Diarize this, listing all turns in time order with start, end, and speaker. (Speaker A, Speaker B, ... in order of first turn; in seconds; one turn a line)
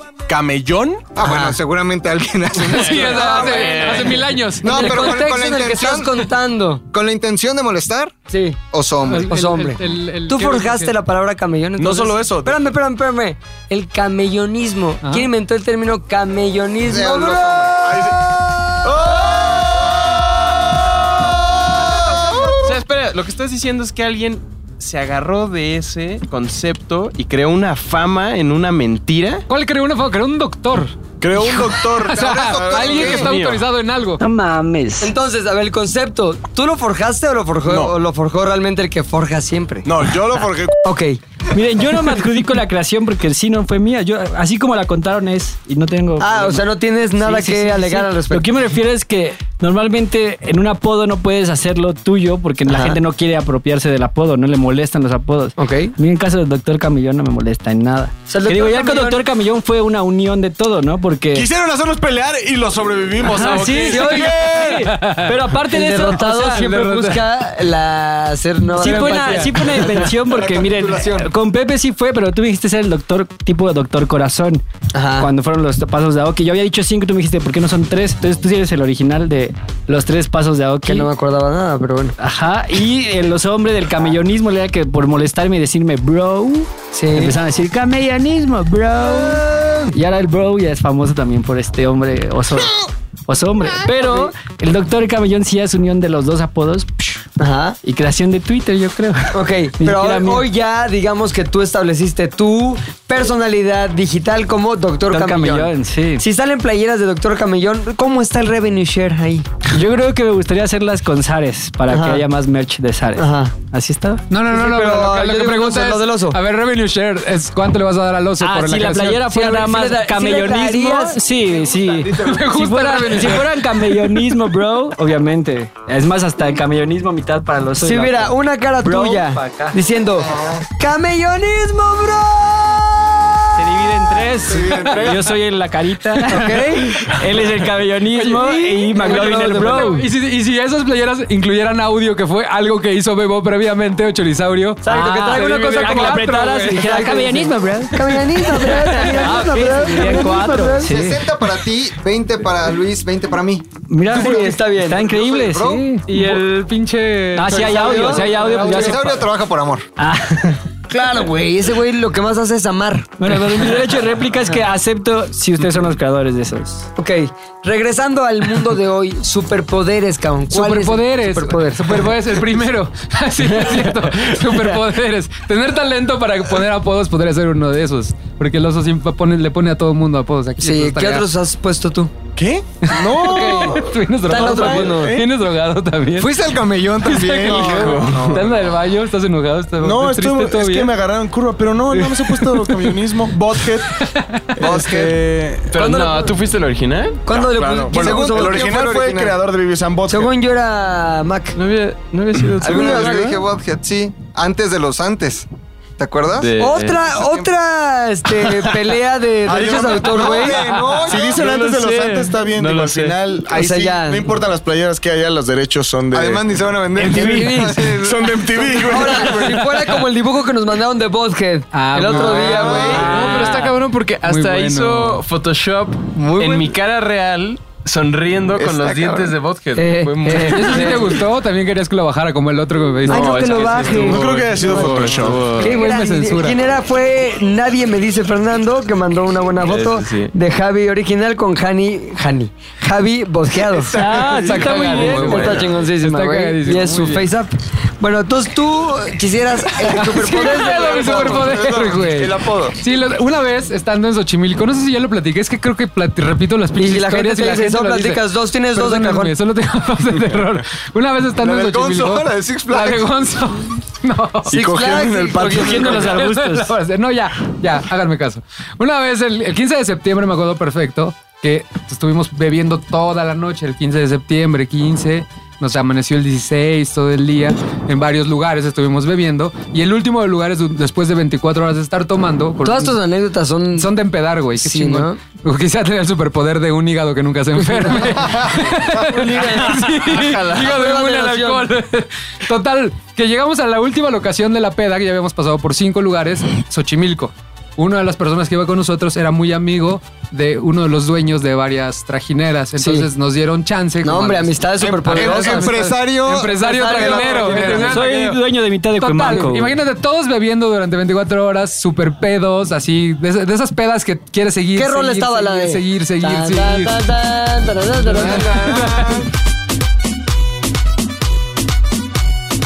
Speaker A: 0.3-1.1
Speaker B: 1.1-3.5
Speaker C: 1.2-1.6
Speaker D: 2.7-5.2
Speaker E: 2.8-4.3
Speaker C: 3.0-6.8
Speaker B: 4.6-6.3
Speaker B: 6.9-8.1
Speaker C: 8.3-8.6
Speaker B: 8.7-9.3
Speaker D: 9.1-10.9
Speaker C: 9.3-17.7
Speaker A: 11.8-12.6
Speaker D: 15.0-15.3
Speaker B: 16.9-17.9
Speaker A: 17.8-18.2
Speaker A: 18.8-19.9
Speaker B: 21.2-22.6
Speaker E: 22.6-29.5
Speaker D: 29.5-34.2
Speaker A: 31.2-33.3
Speaker B: 32.1-33.3
Speaker E: 32.8-33.6
Speaker F: 34.2-35.1
Speaker C: 35.0-39.9
Speaker A: 37.7-38.0
Speaker A: 39.9-40.8
Speaker C: 40.8-41.2
Speaker F: 41.5-61.5
Speaker C: 46.2-48.5
Speaker C: 52.7-53.0
Speaker C: 55.6-55.9
Speaker C: 58.3-59.2
Speaker A: 61.3-65.0
Speaker F: 63.2-66.6
Speaker C: 63.7-64.3
Speaker D: 64.9-65.4
Speaker C: 65.6-69.9
Speaker D: 65.9-67.3
Speaker F: 68.7-74.6
Speaker D: 68.8-69.6
Speaker B: 70.2-71.3
Speaker C: 74.9-75.3
Speaker F: 75.2-81.1
Speaker C: 80.8-82.2
Speaker F: 82.2-97.2
Speaker C: 86.9-87.4
Speaker C: 89.0-89.9
Speaker C: 93.9-94.3
Speaker C: 97.4-97.8
Speaker F: 97.8-100.5
Speaker C: 99.3-109.5
Speaker F: 105.1-106.2
Speaker F: 109.7-114.2
Speaker C: 111.9-112.2
Speaker C: 113.2-113.5
Speaker D: 114.3-119.3
Speaker C: 114.5-116.4
Speaker F: 118.4-129.8
Speaker C: 119.3-121.2
Speaker D: 122.2-123.7
Speaker C: 127.8-133.4
Speaker B: 130.2-130.6
Speaker F: 133.6-140.1
Speaker A: 134.5-135.3
Speaker D: 134.6-135.0
Speaker C: 136.2-137.0
Speaker D: 138.1-147.2
Speaker C: 138.9-140.0
Speaker C: 144.8-150.9
Speaker F: 144.9-151.5
Speaker D: 148.6-150.2
Speaker B: 150.8-153.7
Speaker F: 153.9-156.4
Speaker C: 154.1-155.1
Speaker B: 155.1-155.9
Speaker D: 156.1-159.2
Speaker F: 157.3-159.2
Speaker C: 157.5-158.3
Speaker B: 158.6-159.9
Speaker F: 160.0-160.6
Speaker C: 160.9-163.4
Speaker F: 163.2-166.9
Speaker C: 167.0-172.1
Speaker D: 170.5-181.3
Speaker C: 180.6-182.1
Speaker A: 182.4-185.3
Speaker D: 182.8-186.3
Speaker C: 183.4-183.7
Speaker C: 184.3-185.2
Speaker B: 186.2-188.2
Speaker D: 187.0-190.9
Speaker A: 187.4-188.6
Speaker E: 187.6-188.4
Speaker A: 189.8-194.0
Speaker D: 191.9-192.9
Speaker D: 193.9-194.8
Speaker A: 194.6-195.8
Speaker B: 194.6-195.2
Speaker E: 195.7-197.2
Speaker C: 195.8-196.3
Speaker C: 197.3-198.6
Speaker A: 197.3-200.3
Speaker B: 197.9-199.3
Speaker C: 200.1-201.6
Speaker E: 201.6-203.3
Speaker B: 202.6-205.5
Speaker C: 202.7-203.3
Speaker B: 206.0-206.5
Speaker E: 206.4-207.1
Speaker C: 206.6-211.2
Speaker A: 209.5-216.4
Speaker B: 209.8-211.4
Speaker E: 211.7-213.2
Speaker C: 213.5-214.3
Speaker B: 216.1-219.3
Speaker A: 217.0-219.7
Speaker C: 217.0-217.9
Speaker F: 217.1-217.6
Speaker C: 218.9-223.3
Speaker D: 219.6-219.9
Speaker D: 221.7-225.2
Speaker B: 222.2-223.3
Speaker E: 222.7-231.2
Speaker B: 226.2-226.8
Speaker B: 228.6-229.3
Speaker C: 229.8-231.1
Speaker D: 230.3-234.0
Speaker E: 233.0-235.8
Speaker C: 233.1-244.0
Speaker A: 233.8-235.6
Speaker D: 235.5-236.6
Speaker E: 239.6-240.3
Speaker F: 243.9-245.6
Speaker D: 244.0-247.3
Speaker C: 244.8-251.5
Speaker E: 245.1-245.7
Speaker D: 249.9-264.6
Speaker B: 250.2-252.8
Speaker C: 256.8-259.3
Speaker B: 261.4-263.1
Speaker A: 264.5-265.9
Speaker C: 264.5-266.1
Speaker F: 265.5-266.7
Speaker D: 265.8-283.0
Speaker C: 282.6-283.9
Speaker D: 283.8-308.4
Speaker C: 284.6-285.2
Speaker C: 287.8-288.1
Speaker C: 289.0-291.7
Speaker C: 302.8-303.1
Speaker C: 304.0-305.8
Speaker A: 305.0-306.0
Speaker B: 305.1-307.9
Speaker C: 306.5-308.1
Speaker F: 307.6-309.7
Speaker D: 309.0-316.9
Speaker C: 309.2-309.5
Speaker C: 314.8-319.1
Speaker D: 318.0-319.3